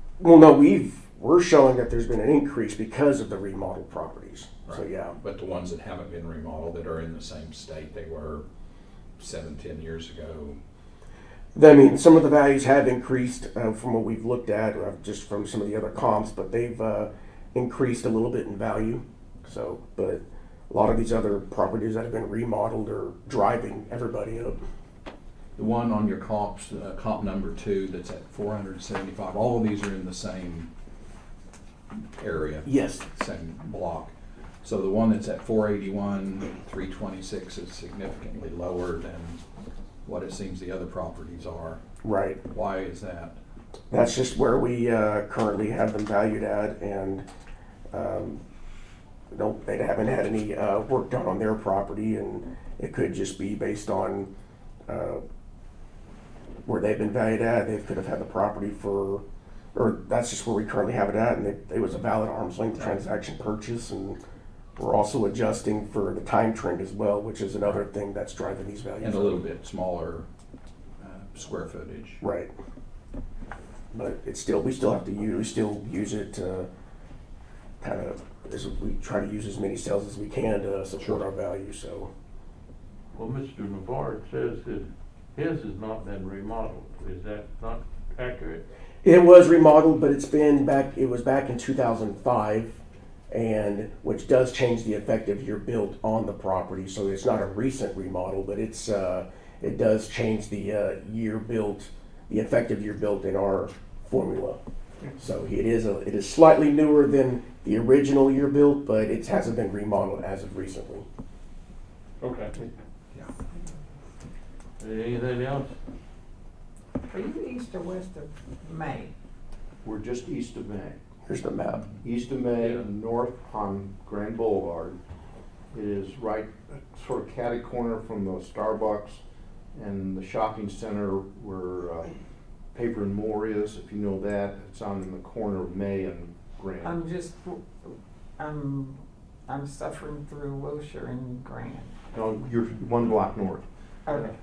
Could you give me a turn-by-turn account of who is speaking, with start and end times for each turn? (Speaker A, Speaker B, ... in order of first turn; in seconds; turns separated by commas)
Speaker A: 0.2-5.2, Speaker B: 4.7-8.4, Speaker B: 9.2-10.6, Speaker A: 11.6-24.6, Speaker B: 25.6-30.7, Speaker B: 32.2-34.1, Speaker A: 32.7-33.0, Speaker B: 34.6-39.4, Speaker B: 40.0-41.8, Speaker A: 42.0-42.4, Speaker B: 42.5-43.4, Speaker A: 43.9-47.3, Speaker A: 47.9-48.4, Speaker A: 49.3-54.3, Speaker A: 54.9-55.2, Speaker A: 56.7-59.2, Speaker A: 59.7-64.2, Speaker A: 64.8-69.4, Speaker B: 69.0-70.3, Speaker B: 71.0-72.2, Speaker A: 72.2-72.5, Speaker A: 73.9-76.7, Speaker A: 77.8-82.1, Speaker C: 83.2-88.7, Speaker A: 89.0-92.8, Speaker A: 93.3-104.6, Speaker A: 105.2-111.1, Speaker C: 112.2-112.6, Speaker C: 114.8-115.8, Speaker D: 117.1-119.1, Speaker E: 119.8-121.0, Speaker A: 121.3-121.9, Speaker E: 122.0-125.0, Speaker C: 122.6-122.9, Speaker E: 125.7-129.2, Speaker E: 129.7-132.1, Speaker E: 132.7-137.0, Speaker D: 136.8-141.9, Speaker E: 142.1-143.7, Speaker D: 144.1-144.3